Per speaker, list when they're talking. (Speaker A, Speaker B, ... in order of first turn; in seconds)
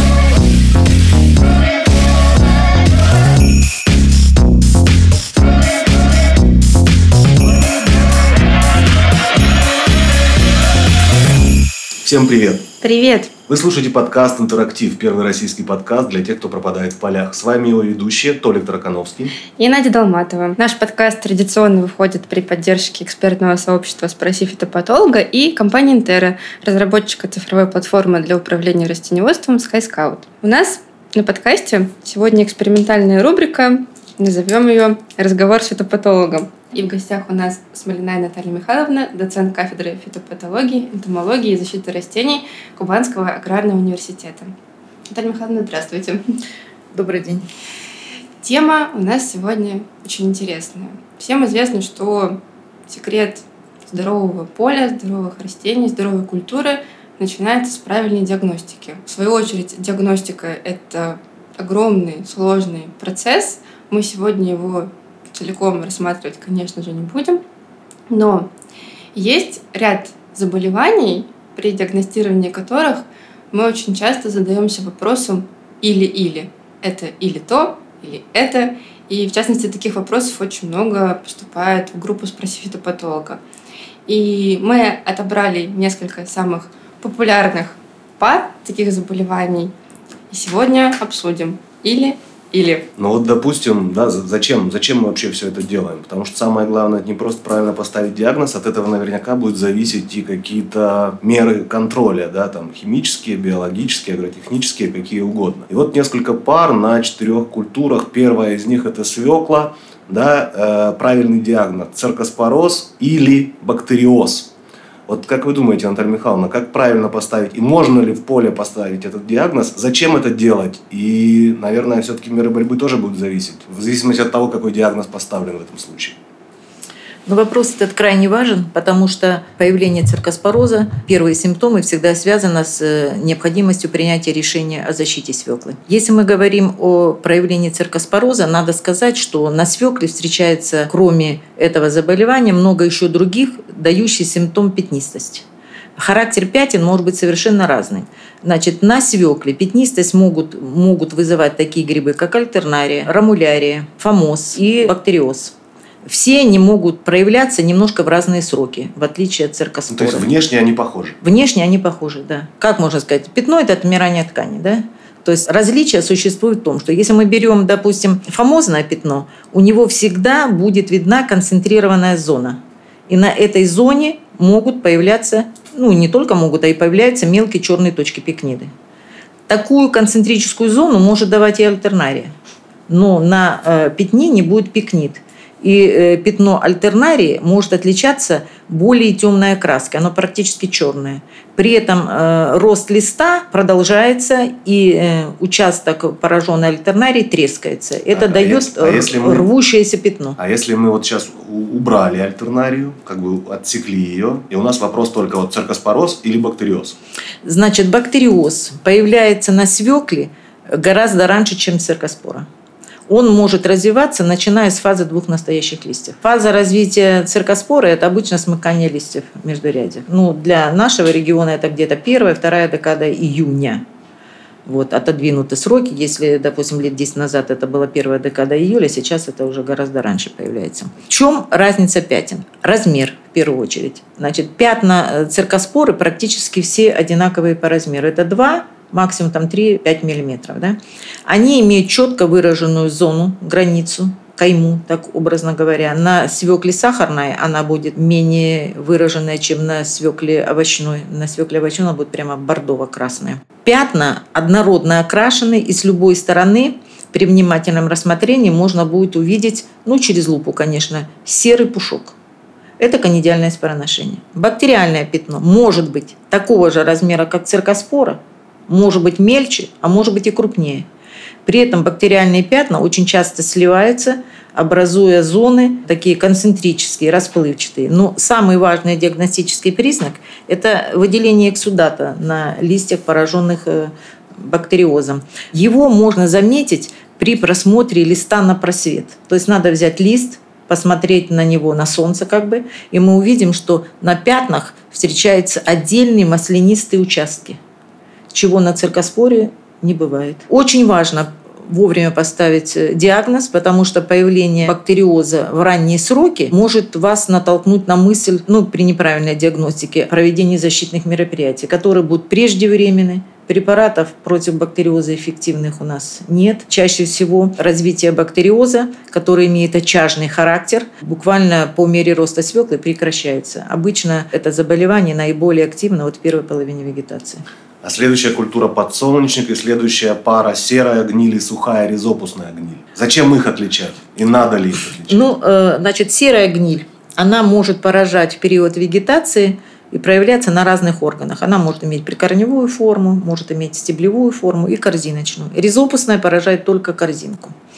Speaker A: 12.0-12.7, 13.5-19.4, 93.0-114.5, 115.1-126.2, 159.9-161.2, 198.1-199.5, 200.4-207.0, 327.8-335.3
Speaker B: 12.8-13.3, 19.6-44.5, 45.1-46.2, 48.4-67.4, 68.1-68.5, 69.1-83.4, 84.0-89.7, 90.3-92.9
Speaker C: 46.9-47.4, 127.3-145.4, 146.0-155.5, 156.0-160.3, 161.2-178.7, 179.5-182.3, 182.9-200.4, 207.4-212.5, 213.1-223.8, 224.7-262.1, 262.8-270.9, 271.4-297.6, 298.3-327.4, 335.1-347.5